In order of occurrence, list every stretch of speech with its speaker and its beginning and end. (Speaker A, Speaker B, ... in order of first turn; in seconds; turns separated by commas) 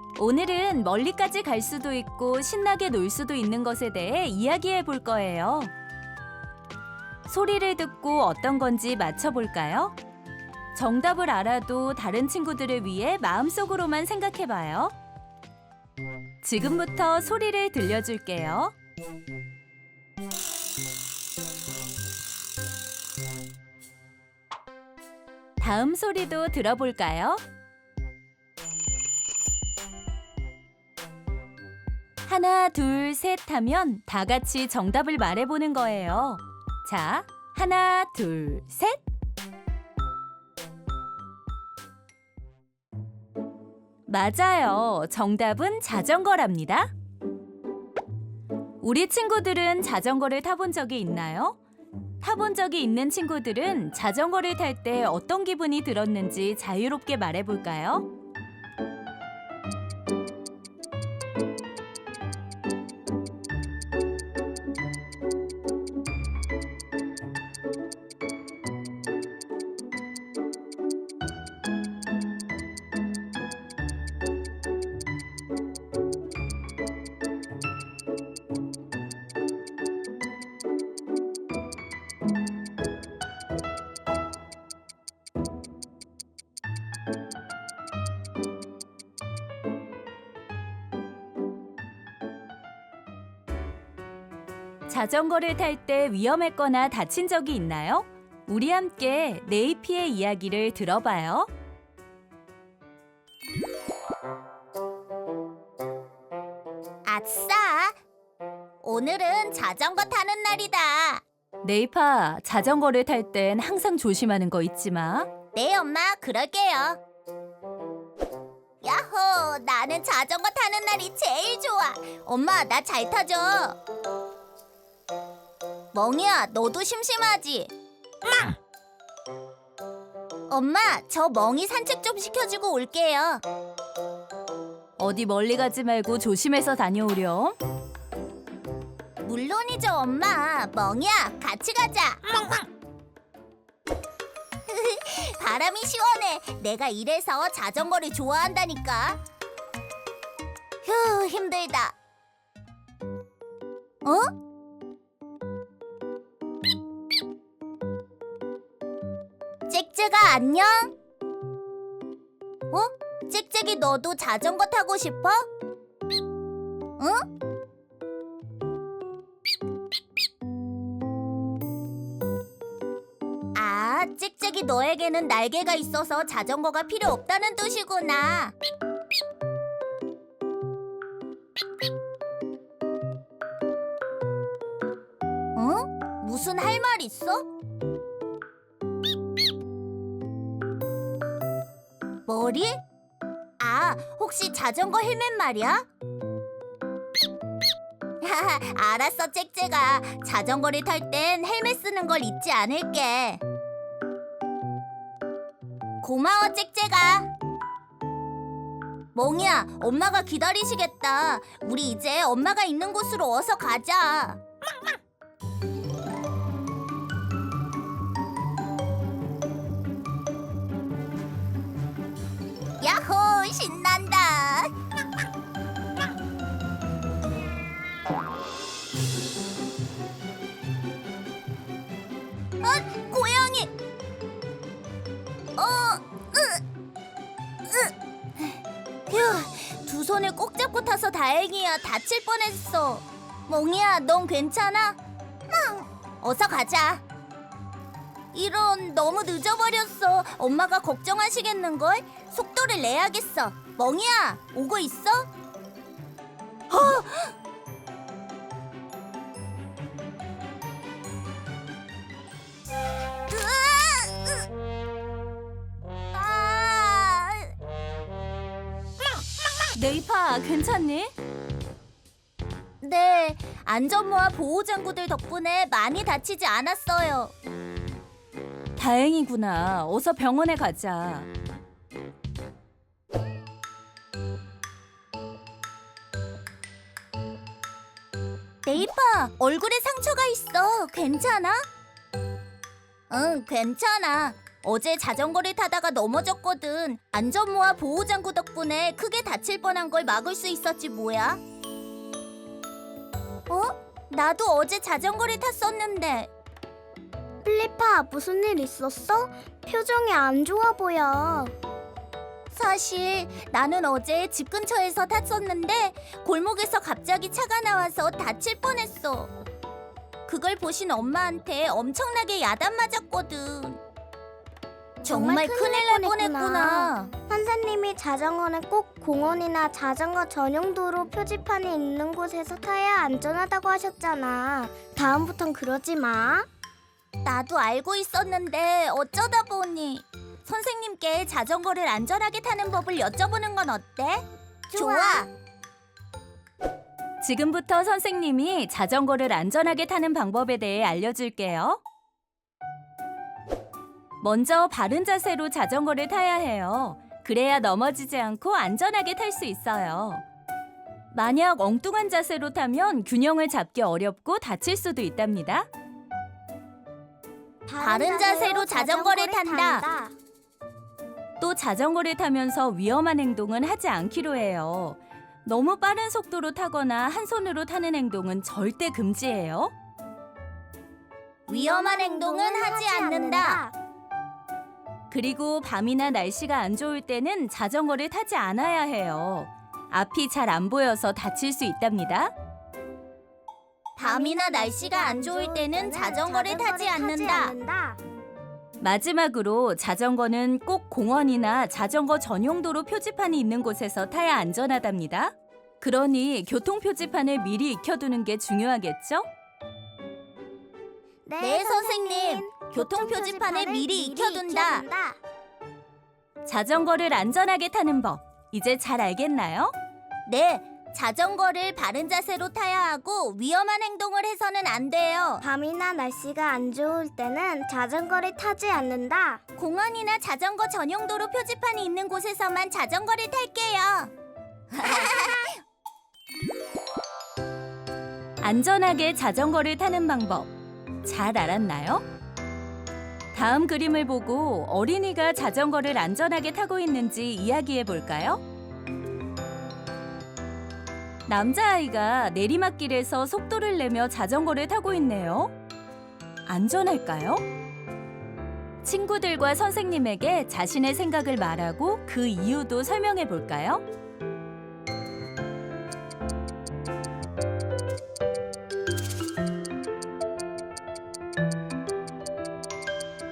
Speaker A: 0.2-5.7, Speaker A: 7.3-9.9, Speaker A: 10.7-14.9, Speaker A: 16.4-18.7, Speaker A: 25.6-27.4, Speaker A: 32.2-39.0, Speaker A: 44.1-46.9, Speaker A: 48.8-51.6, Speaker A: 52.2-58.1, Speaker A: 94.9-101.5, Speaker B: 107.0-108.0, Speaker B: 108.8-111.2, Speaker A: 111.6-115.3, Speaker B: 115.5-117.0, Speaker B: 118.8-123.8, Speaker B: 125.9-127.7, Speaker B: 130.5-133.4, Speaker A: 135.0-137.6, Speaker B: 139.2-142.6, Speaker B: 144.7-149.2, Speaker B: 150.8-152.0, Speaker B: 154.0-154.3, Speaker B: 159.7-160.9, Speaker B: 162.7-165.5, Speaker B: 167.0-167.2, Speaker B: 173.6-178.6, Speaker B: 185.6-187.4, Speaker B: 192.3-192.8, Speaker B: 193.6-195.8, Speaker B: 198.2-203.4, Speaker B: 206.0-207.3, Speaker B: 209.1-214.4, Speaker B: 222.8-224.7, Speaker B: 232.6-233.7, Speaker B: 235.6-236.6, Speaker B: 237.7-247.0, Speaker B: 248.3-255.3, Speaker B: 256.7-257.3, Speaker B: 263.3-264.4, Speaker B: 266.1-267.5, Speaker A: 269.7-271.1, Speaker B: 272.8-277.3, Speaker A: 278.8-281.3, Speaker B: 288.6-291.6, Speaker B: 293.1-301.4, Speaker B: 303.5-306.3, Speaker C: 307.4-311.5, Speaker B: 312.5-319.3, Speaker B: 320.2-323.8, Speaker B: 325.0-327.1, Speaker C: 325.0-336.5, Speaker B: 337.2-345.3, Speaker C: 344.7-345.3, Speaker A: 347.2-351.8, Speaker A: 354.2-360.2, Speaker A: 361.1-365.7, Speaker C: 367.7-370.1, Speaker B: 367.8-369.9, Speaker A: 371.4-379.7, Speaker B: 381.5-383.6, Speaker C: 381.5-383.7, Speaker A: 385.1-392.3, Speaker B: 394.0-397.5, Speaker C: 394.0-398.0, Speaker A: 398.8-409.3, Speaker C: 411.2-415.2, Speaker B: 411.4-414.9, Speaker A: 416.4-419.7, Speaker B: 420.2-425.4, Speaker C: 425.4-429.4, Speaker B: 429.6-434.1, Speaker B: 434.7-435.6, Speaker C: 434.8-435.4, Speaker A: 438.4-440.5, Speaker A: 441.0-442.0, Speaker A: 443.3-448.4, Speaker A: 451.3-455.5, Speaker A: 456.4-457.4, Speaker A: 458.8-463.8